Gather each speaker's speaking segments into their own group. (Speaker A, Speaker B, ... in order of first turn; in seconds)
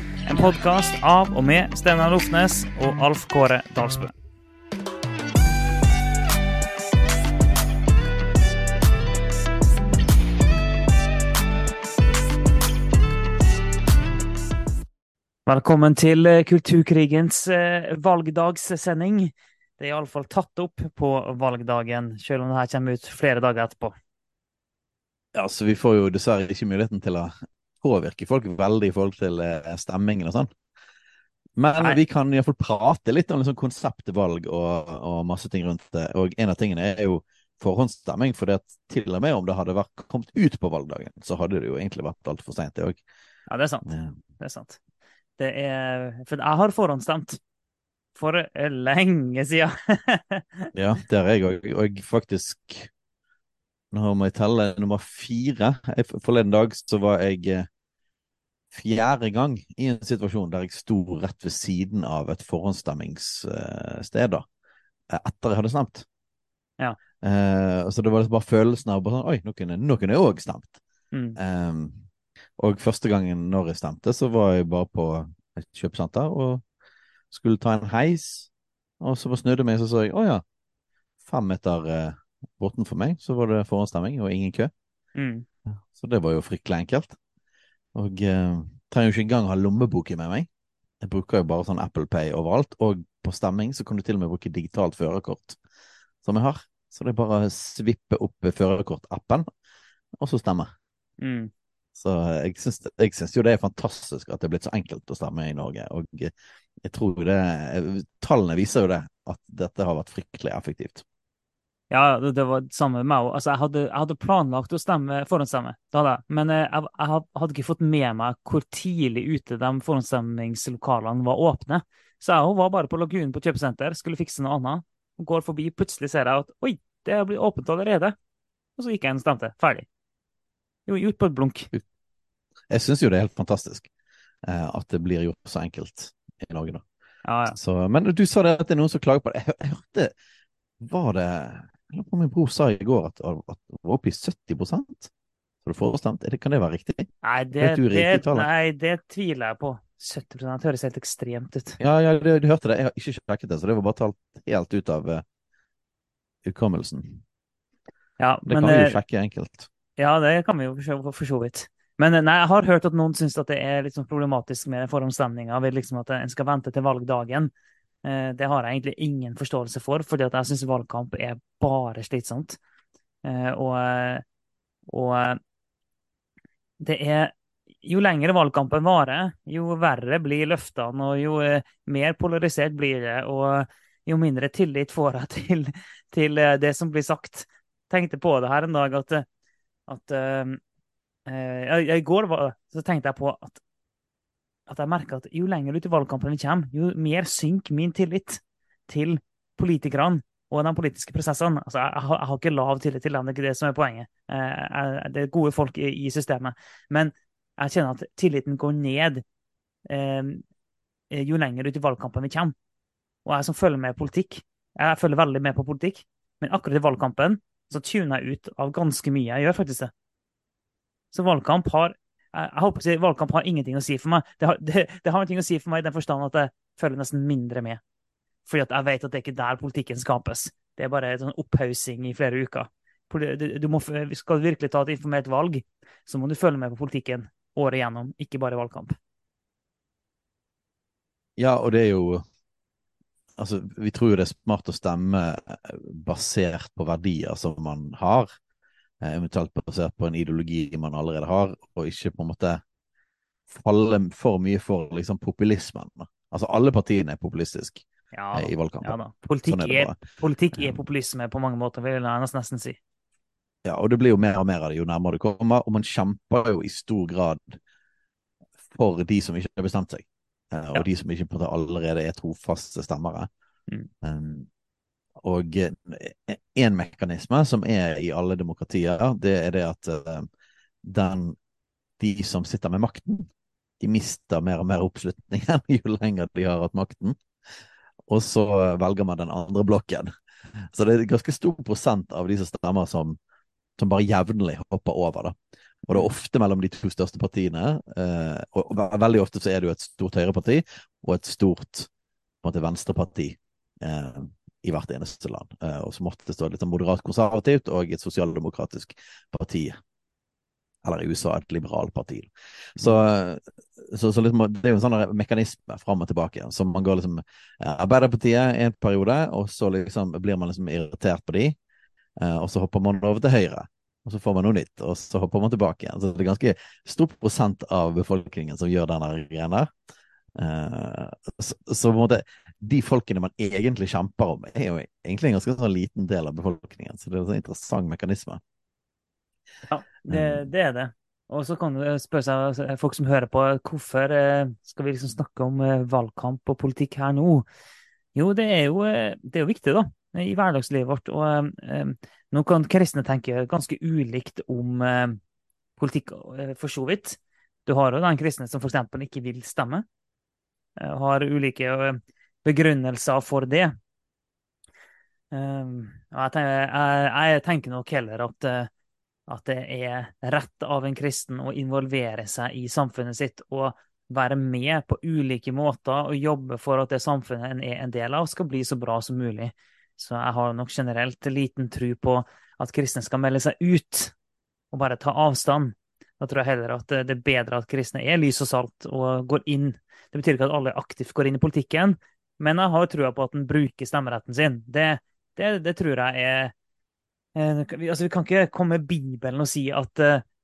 Speaker A: 0.2-4.1, 15.4-23.9, 43.5-43.9, 44.4-44.8, 45.4-47.4, 48.1-50.7, 71.1-71.4, 85.1-85.5, 101.2-101.5, 111.9-128.2, 128.8-129.9, 130.9-131.7, 137.2-137.6, 147.2-151.8, 158.2-159.0, 160.0-167.5, 168.0-172.6, 173.2-174.2, 174.9-175.4, 176.8-189.2, 189.9-190.6, 191.3-193.6, 194.7-209.2, 209.9-210.4, 211.1-212.5, 213.2-219.9, 221.1-227.8, 228.4-238.9, 258.1-262.8, 339.7-347.4, 348.1-355.2, 355.8-359.8, 360.8-363.7, 365.3-368.7, 369.3-384.1, 384.7-396.5, 397.3-400.2
Speaker B: 25.3-30.5, 31.6-43.0, 43.8-44.2, 50.7-52.9, 53.9-57.7, 58.7-64.5, 65.1-66.0, 67.2-70.8, 71.4-72.0, 72.6-76.6, 77.3-78.5, 79.0-80.4, 81.2-84.7, 85.9-87.1, 87.9-90.5, 91.0-95.6, 96.2-99.5, 100.2-100.7, 101.9-106.3, 106.8-111.0, 132.7-133.9, 134.4-136.8, 137.5-140.1, 140.8-145.1, 145.6-148.5, 151.8-155.2, 156.4-157.2, 158.4-159.7, 241.4-242.2, 243.4-248.3, 249.0-252.6, 253.5-260.0, 263.6-267.6, 268.7-273.3, 274.0-274.5, 275.2-280.3, 280.8-281.4, 282.0-283.3, 283.8-287.2, 288.1-290.1, 290.7-293.2, 293.8-301.9, 302.4-309.8, 310.8-321.6, 322.2-329.7, 330.4-338.4, 340.1-340.5